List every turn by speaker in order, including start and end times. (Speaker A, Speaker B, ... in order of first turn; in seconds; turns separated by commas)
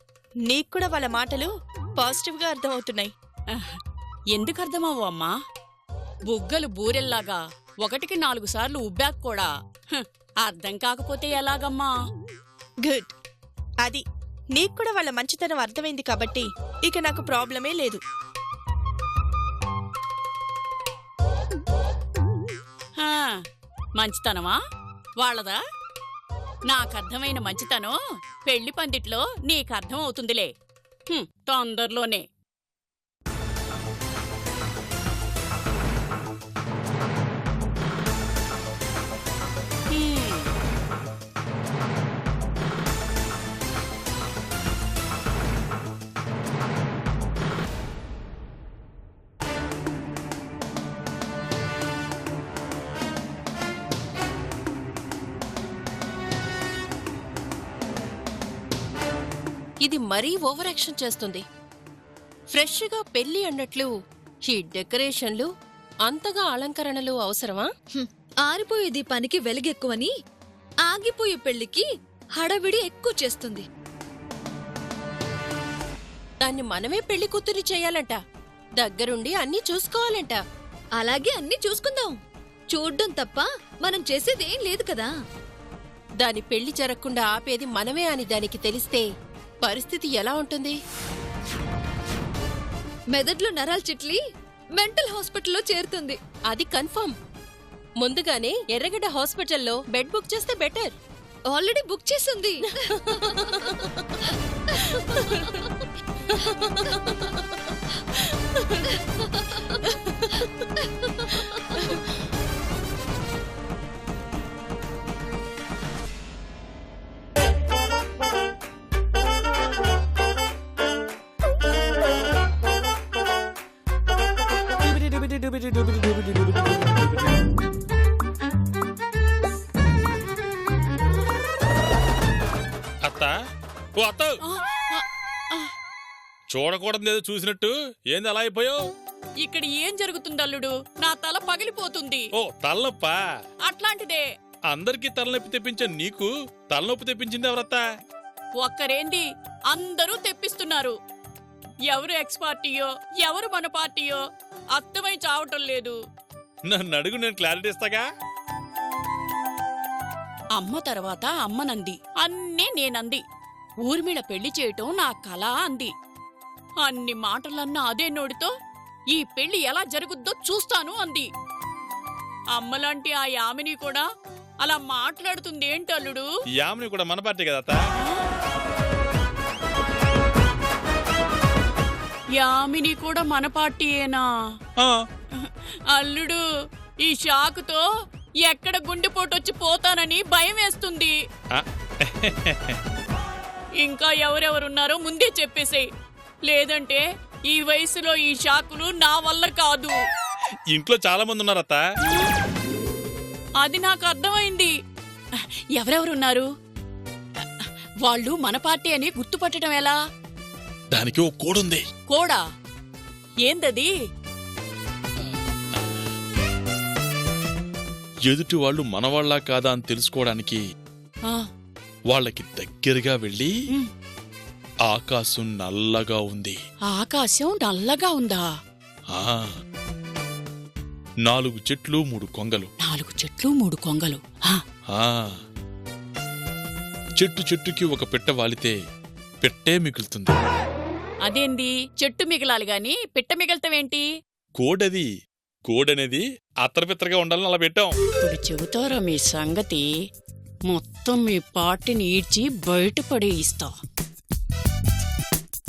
Speaker A: 0.5-3.1, Speaker B: 3.5-3.8, Speaker B: 4.3-5.3, Speaker B: 6.3-11.9, Speaker A: 12.8-13.1, Speaker A: 13.8-18.0, Speaker B: 23.0-23.4, Speaker B: 24.0-24.6, Speaker B: 25.2-25.6, Speaker B: 26.7-30.5, Speaker B: 31.1-32.2, Speaker B: 39.9-40.5, Speaker C: 59.9-61.4, Speaker C: 62.6-63.9, Speaker C: 64.5-65.5, Speaker C: 66.1-67.7, Speaker D: 68.0-70.1, Speaker D: 70.9-71.8, Speaker D: 72.4-73.7, Speaker C: 76.5-78.2, Speaker C: 78.8-80.4, Speaker D: 81.0-82.1, Speaker D: 82.7-85.1, Speaker C: 86.3-89.0, Speaker C: 89.7-90.7, Speaker D: 93.2-94.2, Speaker D: 94.8-96.2, Speaker C: 96.6-97.1, Speaker C: 98.0-100.9, Speaker D: 101.5-102.5, Speaker C: 103.0-103.7, Speaker C: 105.0-105.3, Speaker E: 133.1-133.3, Speaker E: 134.0-134.4, Speaker B: 134.4-135.7, Speaker E: 136.5-138.8, Speaker B: 139.4-142.3, Speaker E: 142.4-143.2, Speaker B: 143.7-144.2, Speaker E: 144.7-147.8, Speaker B: 148.6-150.9, Speaker B: 151.9-154.2, Speaker B: 154.8-156.0, Speaker E: 156.7-158.1, Speaker B: 160.6-163.2, Speaker B: 163.8-165.9, Speaker B: 166.8-168.5, Speaker B: 169.1-171.3, Speaker B: 172.5-174.1, Speaker B: 174.6-176.3, Speaker E: 176.6-177.8, Speaker B: 182.4-184.2, Speaker B: 185.4-186.4, Speaker B: 187.0-187.8, Speaker B: 188.4-191.2, Speaker E: 191.5-192.8, Speaker B: 193.8-195.9, Speaker B: 196.5-200.0, Speaker E: 200.7-201.8, Speaker B: 203.6-204.7, Speaker B: 205.8-206.5, Speaker B: 207.4-210.0, Speaker E: 210.9-211.8, Speaker B: 212.1-212.4, Speaker B: 213.4-213.9, Speaker E: 218.3-220.6, Speaker E: 222.1-223.5, Speaker E: 224.9-226.6, Speaker B: 226.9-228.5, Speaker E: 229.1-229.4, Speaker E: 231.2-232.7, Speaker B: 232.8-234.6, Speaker E: 237.2-238.8, Speaker E: 239.4-240.4, Speaker B: 241.3-244.1, Speaker E: 244.6-245.1, Speaker E: 245.7-247.9, Speaker B: 248.2-249.9, Speaker B: 250.7-253.7